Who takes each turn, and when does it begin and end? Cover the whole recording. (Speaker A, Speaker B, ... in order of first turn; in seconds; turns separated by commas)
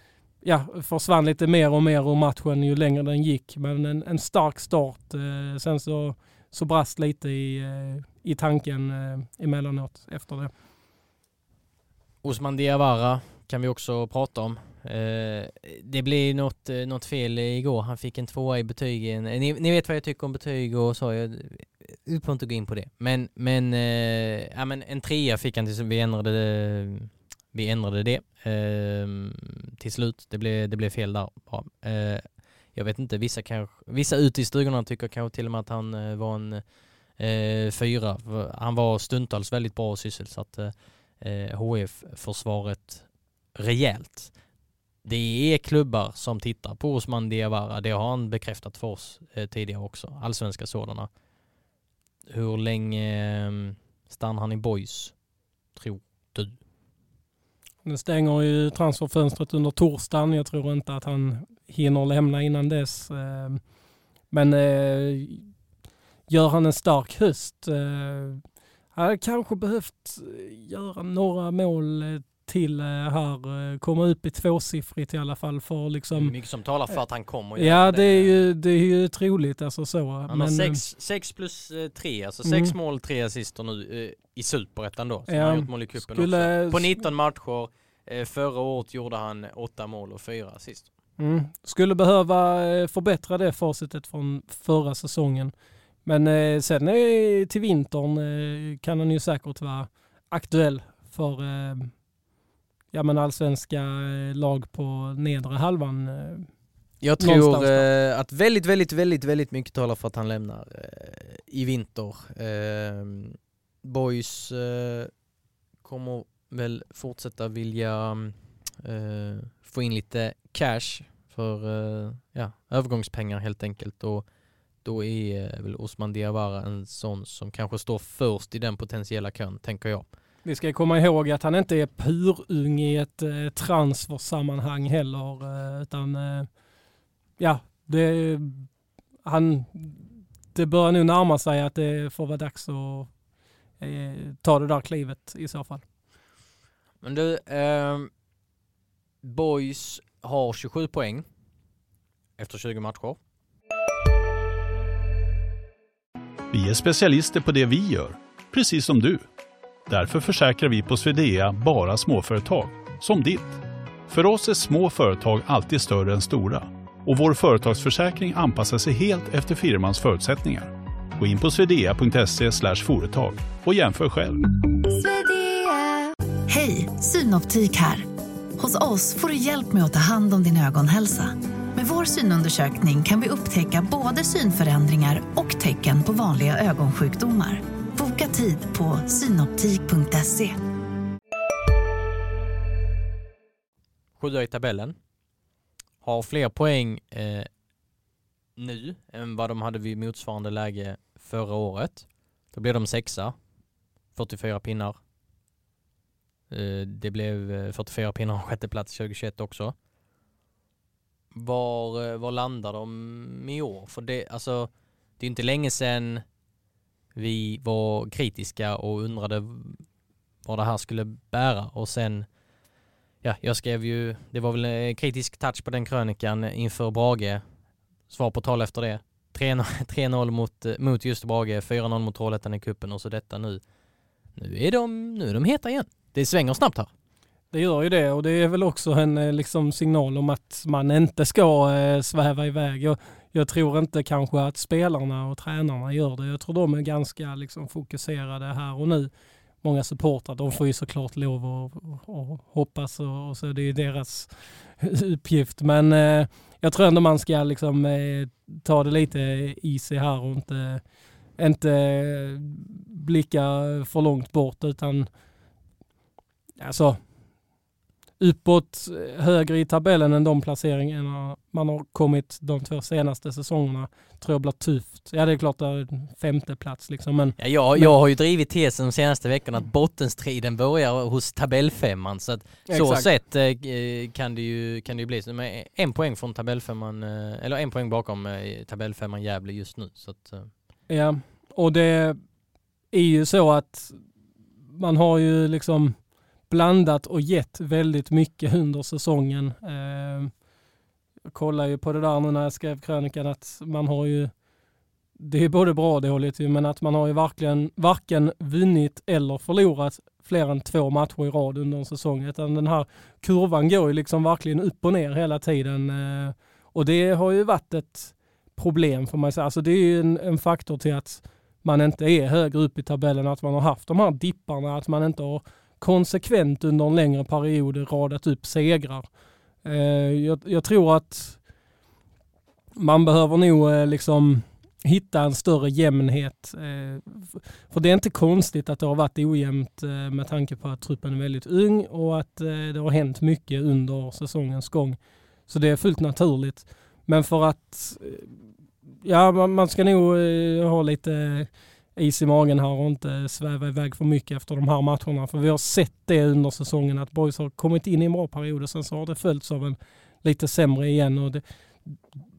Speaker A: 0.4-10.5, Speaker B: 12.2-36.6, Speaker B: 37.2-44.3, Speaker B: 45.0-51.1, Speaker B: 52.3-55.1, Speaker B: 55.7-56.5, Speaker A: 57.8-63.6, Speaker A: 64.3-65.5, Speaker A: 66.3-68.4, Speaker A: 68.9-76.3, Speaker B: 76.1-78.4, Speaker A: 77.6-80.8, Speaker B: 80.3-90.9, Speaker A: 82.5-82.7, Speaker A: 85.3-87.0, Speaker A: 91.2-95.5, Speaker A: 96.0-101.9, Speaker A: 102.9-106.5, Speaker B: 107.0-115.1, Speaker A: 107.2-107.9, Speaker B: 115.8-124.2, Speaker B: 124.8-130.1, Speaker A: 130.4-136.5, Speaker A: 137.4-138.7, Speaker A: 139.2-143.1, Speaker A: 143.8-145.8, Speaker B: 147.0-148.1, Speaker B: 149.2-151.2, Speaker B: 152.4-153.2, Speaker C: 156.5-159.2, Speaker C: 159.9-174.4, Speaker D: 174.9-190.6, Speaker B: 194.2-194.9, Speaker B: 196.0-197.5, Speaker B: 198.6-203.3, Speaker B: 204.1-204.9, Speaker B: 206.5-209.7, Speaker B: 211.3-216.2, Speaker B: 217.1-219.8, Speaker B: 220.4-222.3, Speaker B: 223.2-227.4, Speaker B: 228.1-233.6, Speaker B: 234.3-236.9, Speaker A: 237.5-249.1, Speaker A: 249.6-260.8, Speaker A: 261.4-265.1, Speaker A: 266.6-267.0, Speaker A: 268.2-277.9, Speaker B: 277.4-290.5, Speaker A: 282.7-283.1, Speaker A: 290.9-292.2, Speaker A: 292.9-294.0, Speaker A: 294.7-295.9, Speaker A: 296.5-300.3, Speaker A: 301.3-304.3, Speaker A: 305.2-329.1, Speaker A: 329.6-331.4, Speaker A: 332.8-348.3, Speaker A: 349.0-362.0